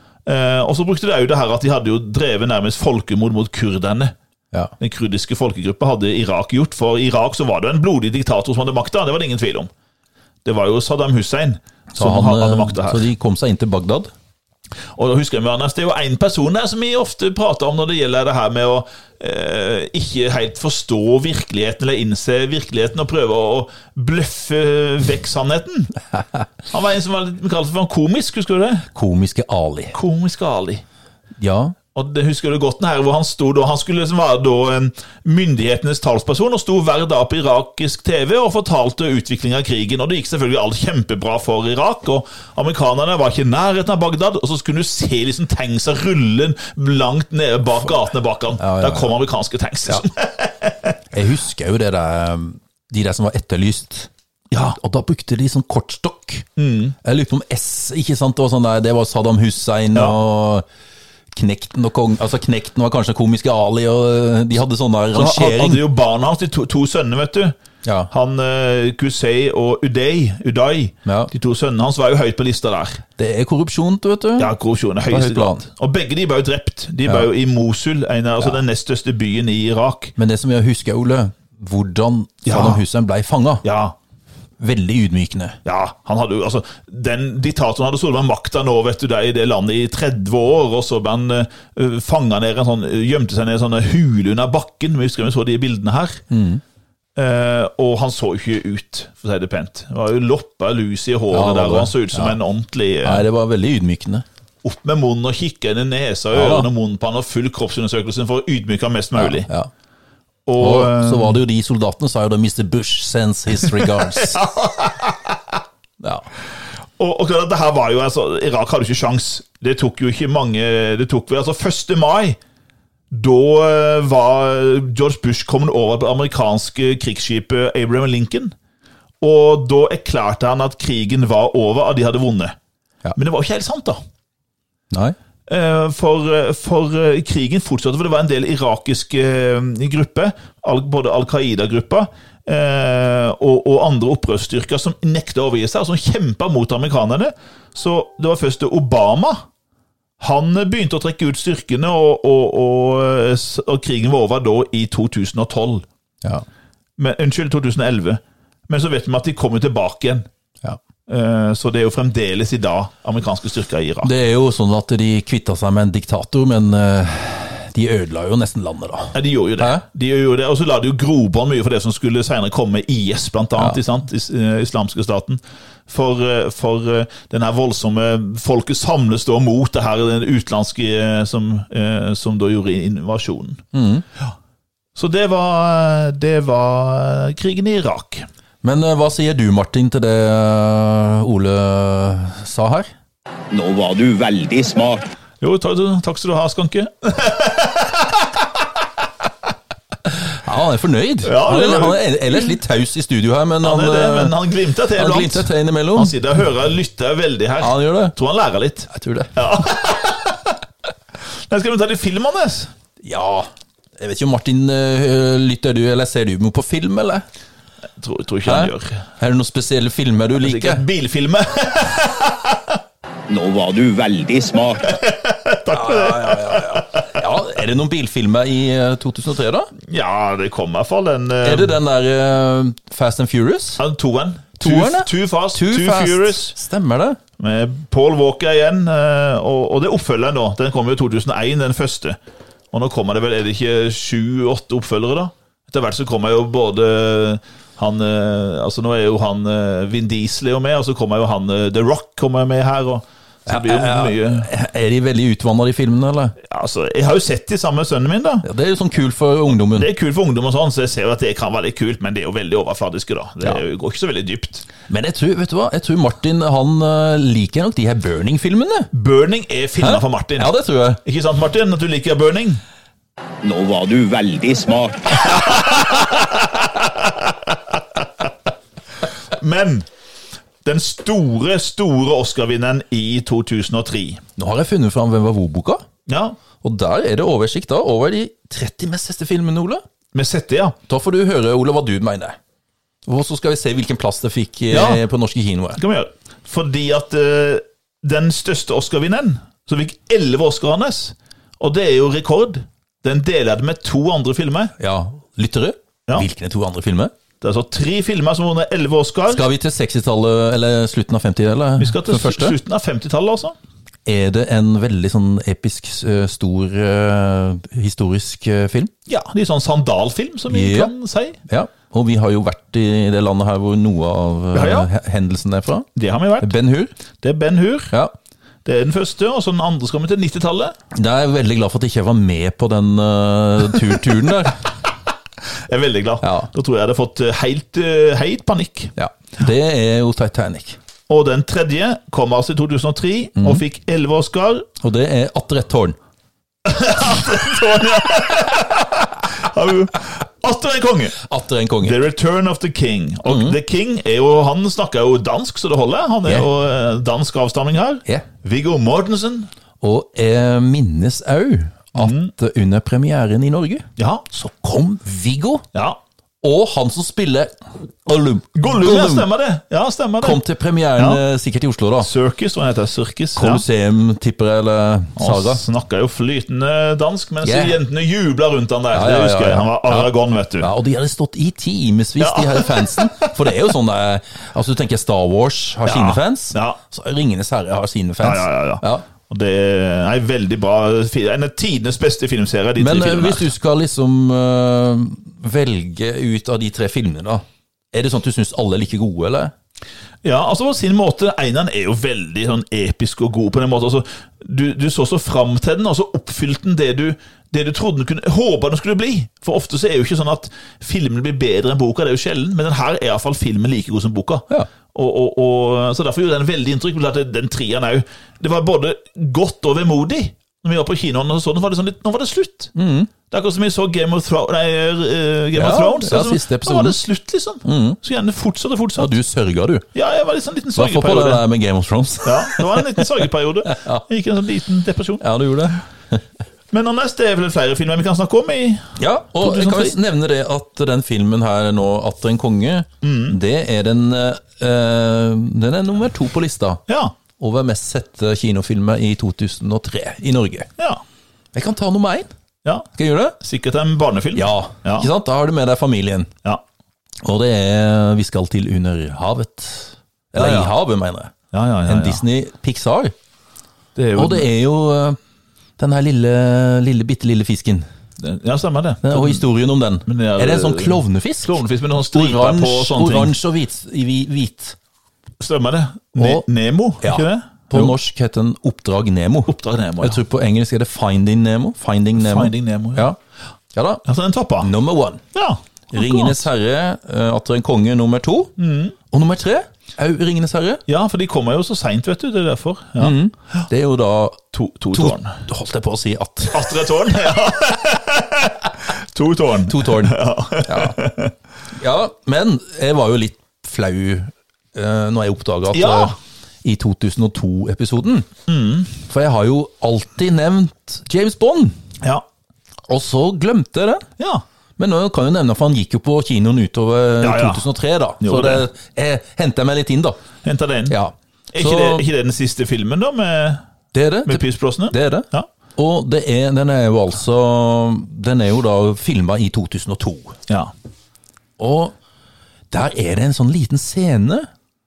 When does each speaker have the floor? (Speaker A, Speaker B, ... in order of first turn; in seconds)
Speaker A: 0.3-4.1, 4.8-9.7, 10.4-13.1, 14.9-25.9, 26.7-28.9, 29.9-30.8, 31.9-51.0, 54.5-54.8, 56.6-57.0, 65.1-67.6, 68.1-73.0, 74.4-80.1, 82.5-82.8, 83.6-84.0, 85.7-96.2, 97.2-103.3, 104.6-109.5, 110.5-111.4, 113.6-115.6, 117.0-122.4, 123.1-128.5, 129.2-132.6, 133.2-134.0, 135.5-149.4, 150.2-155.9, 157.0-160.3, 161.1-164.1, 169.1-183.6, 184.9-188.3, 195.4-198.3, 201.2-202.6, 203.6-210.6, 211.5-212.7, 218.0-219.0, 220.4-222.8, 224.9-227.2, 229.8-231.8, 233.8-236.6, 237.4-242.2, 242.7-254.5, 256.4-258.5, 259.7-264.7, 268.9-272.6, 275.2-278.0, 279.3-279.9, 280.6-284.2, 286.1-286.4, 290.1-290.8, 294.7-295.0, 295.8-304.7, 307.4-309.4, 311.8-313.6, 319.1-321.4, 324.5-324.9, 326.0-326.5, 327.2-327.9, 328.6-330.8, 335.7-338.9, 341.1-344.7, 346.6-351.2, 351.8-359.5, 361.9-362.3, 364.0-364.3, 365.7-366.0, 368.6-370.4, 371.0-371.2, 372.0-373.6, 375.2-380.7, 382.2-383.3, 385.9-386.8, 388.2-393.5, 400.2-422.7, 423.3-429.1, 429.9-431.4, 432.2-435.2, 436.7-440.0, 443.0-443.4, 446.9-447.1, 453.4-455.1, 460.3-460.7, 461.5-462.2, 463.9-464.5, 468.2-469.4, 470.1-473.4, 475.4-478.0, 479.5-480.2, 482.2-483.1, 484.1-484.7, 485.3-486.5, 488.6-488.9, 490.9-493.6, 494.5-495.4, 496.5-501.3, 505.7-506.1, 508.5-508.9, 514.2-514.4, 517.2-517.7, 518.2-518.7, 520.4-521.0, 521.5-523.6, 524.3-525.5
Speaker B: 11.9-14.1, 26.1-26.4, 28.9-30.0, 31.4-31.8, 48.6-49.1, 51.1-54.1, 54.8-56.5, 57.0-60.6, 61.3-65.8, 67.8-68.1, 71.0-71.3, 73.2-74.5, 75.1-75.7, 80.2-83.7, 84.6-85.6, 96.3-96.6, 101.3-102.4, 103.0-104.2, 106.3-106.7, 109.2-109.7, 110.6-114.4, 116.0-116.3, 134.9-135.2, 164.0-169.8, 183.7-184.1, 188.6-192.9, 200.1-204.4, 204.9-206.1, 207.6-208.1, 208.9-209.4, 213.0-217.2, 218.5-220.8, 225.7-229.7, 231.4-233.8, 234.6-237.2, 253.5-256.4, 258.4-259.9, 264.9-268.9, 269.8-271.0, 284.4-285.9, 286.6-289.8, 290.9-292.4, 293.1-295.8, 304.8-307.1, 309.3-312.6, 314.1-318.9, 320.5-320.9, 321.5-325.9, 326.4-326.9, 330.9-334.6, 336.2-336.5, 339.0-340.8, 343.4-343.6, 344.8-346.0, 351.2-352.0, 353.3-353.6, 359.8-365.6, 366.4-369.3, 370.2-372.1, 373.4-375.6, 377.4-377.8, 378.9-389.1, 392.8-399.5, 422.8-423.1, 425.5-427.0, 427.6-428.0, 429.0-429.9, 430.8-434.1, 435.2-436.2, 439.0-446.8, 447.4-450.7, 451.5-452.3, 452.9-453.4, 454.3-456.3, 457.2-461.3, 461.9-463.1, 464.2-465.2, 465.8-467.9, 469.0-474.8, 476.2-476.4, 477.0-483.2, 483.7-484.1, 484.6-485.2, 485.9-488.5, 489.1-490.8, 493.0-496.8, 499.7-501.0, 501.8-508.3, 509.0-511.8, 512.9-514.1, 514.8-520.2, 520.9-522.1, 523.9-530.4, 531.6-532.0, 532.7-534.5
Speaker C: 193.5-195.1, 223.3-224.9, 273.4-275.6